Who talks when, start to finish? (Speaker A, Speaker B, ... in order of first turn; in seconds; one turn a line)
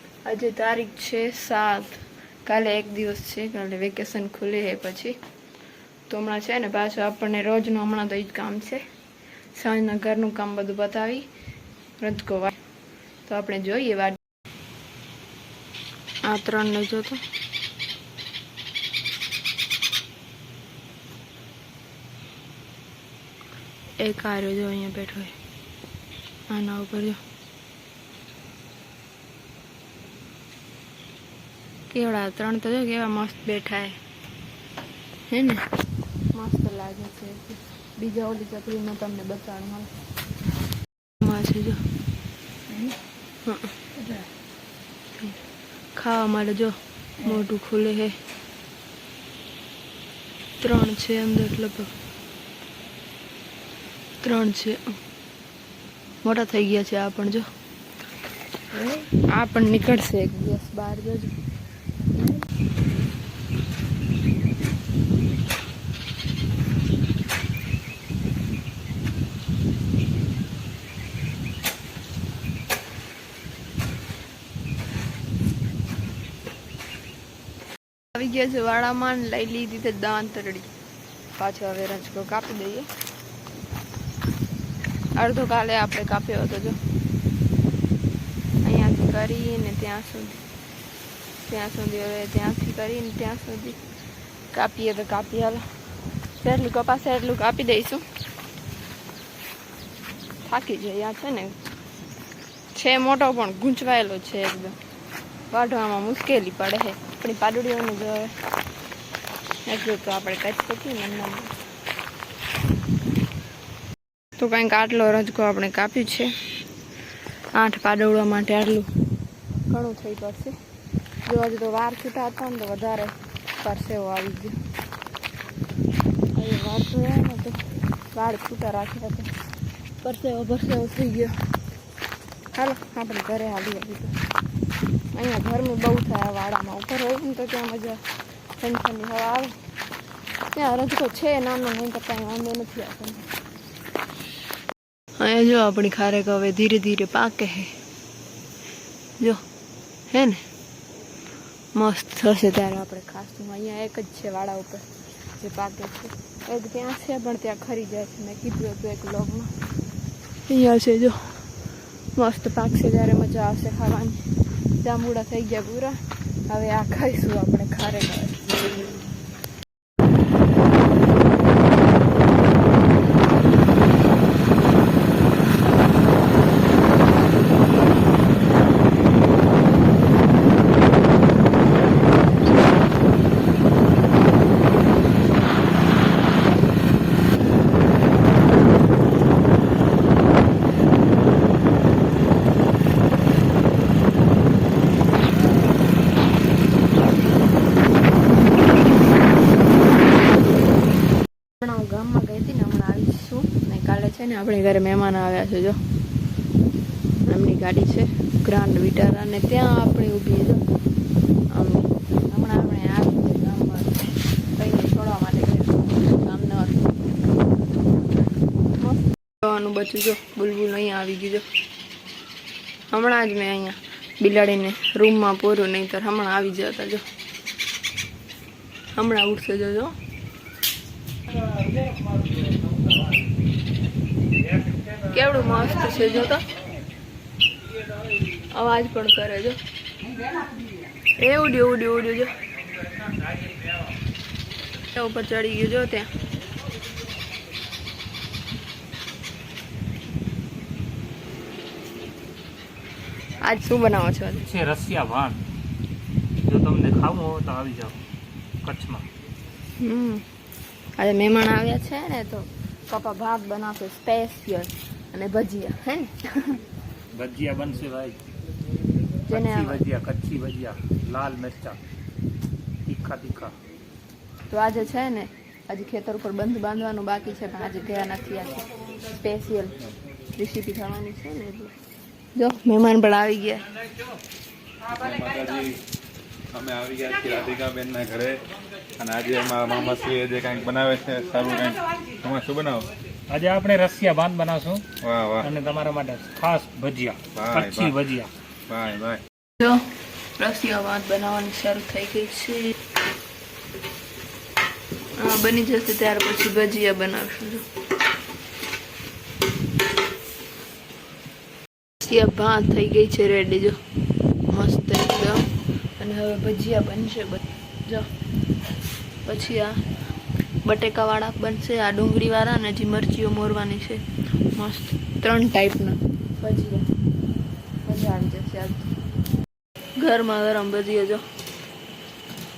Speaker A: 0.2-5.2
Speaker A: 6.1-8.8
Speaker A: 9.5-11.3
Speaker A: 12.0-12.6
Speaker A: 13.2-14.2
Speaker A: 16.2-17.2
Speaker A: 24.0-25.3
Speaker A: 26.5-27.2
Speaker A: 31.9-34.0
Speaker A: 35.3-35.6
Speaker A: 36.3-40.0
Speaker A: 41.2-41.8
Speaker A: 43.4-44.2
Speaker A: 45.9-48.2
Speaker A: 50.6-51.9
Speaker A: 54.2-55.0
Speaker A: 56.2-57.5
Speaker A: 58.8-61.4
Speaker A: 78.1-80.7
Speaker A: 81.3-82.9
Speaker A: 85.1-86.8
Speaker A: 88.6-90.4
Speaker A: 91.4-93.8
Speaker A: 94.5-95.7
Speaker A: 96.4-98.0
Speaker A: 100.4-101.6
Speaker A: 102.7-104.8
Speaker A: 105.5-108.3
Speaker A: 109.7-111.5
Speaker A: 114.4-116.3
Speaker A: 117.5-118.9
Speaker A: 119.7-120.5
Speaker A: 121.2-124.6
Speaker A: 126.3-129.3
Speaker A: 130.0-131.3
Speaker A: 132.5-134.2
Speaker A: 135.1-138.0
Speaker A: 138.6-139.5
Speaker A: 140.5-143.3
Speaker A: 145.2-147.7
Speaker A: 150.1-150.4
Speaker A: 151.7-159.5
Speaker A: 160.4-161.5
Speaker A: 162.1-168.6
Speaker A: 201.6-205.8
Speaker A: 207.2-210.6
Speaker A: 211.5-216.9
Speaker A: 218.8-221.4
Speaker A: 222.9-227.0
Speaker A: 228.9-229.9
Speaker A: 235.0-236.5
Speaker A: 238.4-239.6
Speaker A: 241.1-242.4
Speaker A: 244.9-246.1
Speaker A: 253.4-254.4
Speaker B: 254.4-255.4
Speaker B: 256.4-258.0
Speaker B: 258.6-259.1
Speaker A: 259.8-260.2
Speaker A: 261.0-266.6
Speaker B: 267.1-268.2
Speaker A: 269.3-269.8
Speaker B: 269.3-271.8
Speaker B: 272.8-273.5
Speaker A: 274.5-279.8
Speaker A: 280.3-281.7
Speaker A: 282.3-283.7
Speaker C: 284.9-285.8
Speaker C: 286.5-288.4
Speaker C: 289.0-292.9
Speaker B: 293.3-294.9
Speaker C: 295.0-295.5
Speaker B: 295.4-298.3
Speaker C: 297.3-297.9
Speaker C: 298.7-299.2
Speaker A: 299.6-302.7
Speaker A: 305.1-307.6
Speaker A: 312.0-313.8
Speaker A: 314.5-318.1
Speaker A: 319.2-319.8
Speaker A: 320.6-326.9
Speaker A: 327.8-328.9
Speaker A: 330.0-331.2